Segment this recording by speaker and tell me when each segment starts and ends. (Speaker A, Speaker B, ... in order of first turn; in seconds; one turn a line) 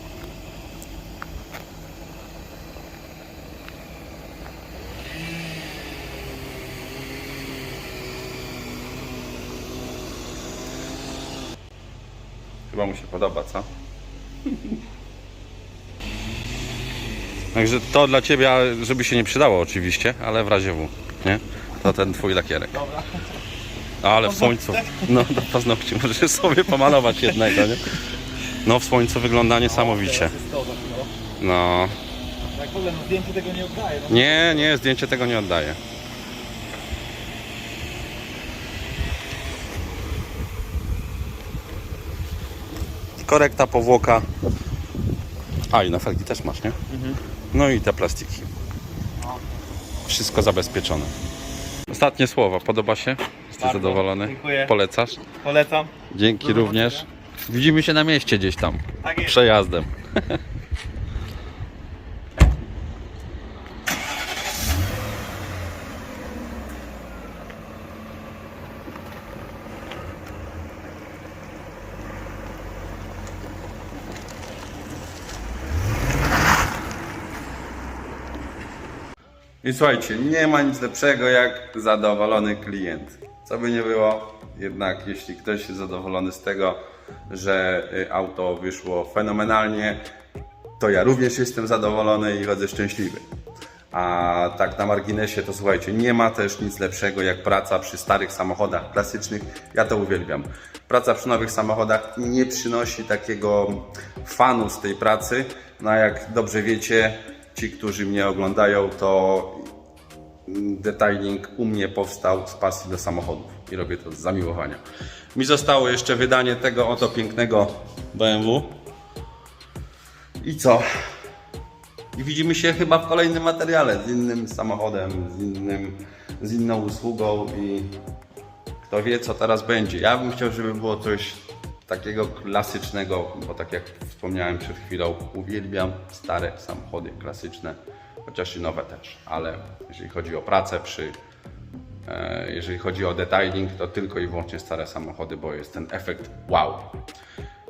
Speaker A: 12.7-13.7
Speaker A: 17.5-22.8
Speaker B: 22.7-23.2
Speaker A: 24.0-27.8
Speaker B: 24.2-25.2
Speaker A: 28.6-30.4
Speaker B: 29.6-31.1
Speaker A: 31.4-32.0
Speaker B: 32.5-34.7
Speaker A: 34.1-35.8
Speaker A: 43.2-44.2
Speaker A: 45.7-46.8
Speaker B: 46.9-47.2
Speaker A: 47.5-48.5
Speaker A: 50.1-51.1
Speaker A: 51.9-55.2
Speaker B: 53.6-54.7
Speaker B: 55.4-57.0
Speaker A: 56.1-60.4
Speaker B: 59.0-59.4
Speaker A: 79.6-90.0
Speaker A: 90.8-93.2
Speaker A: 93.9-109.7
Speaker A: 110.5-114.8
Speaker A: 115.3-118.7
Speaker A: 120.4-120.8
Speaker A: 122.1-128.0
Speaker A: 128.9-141.2
Speaker A: 142.1-146.9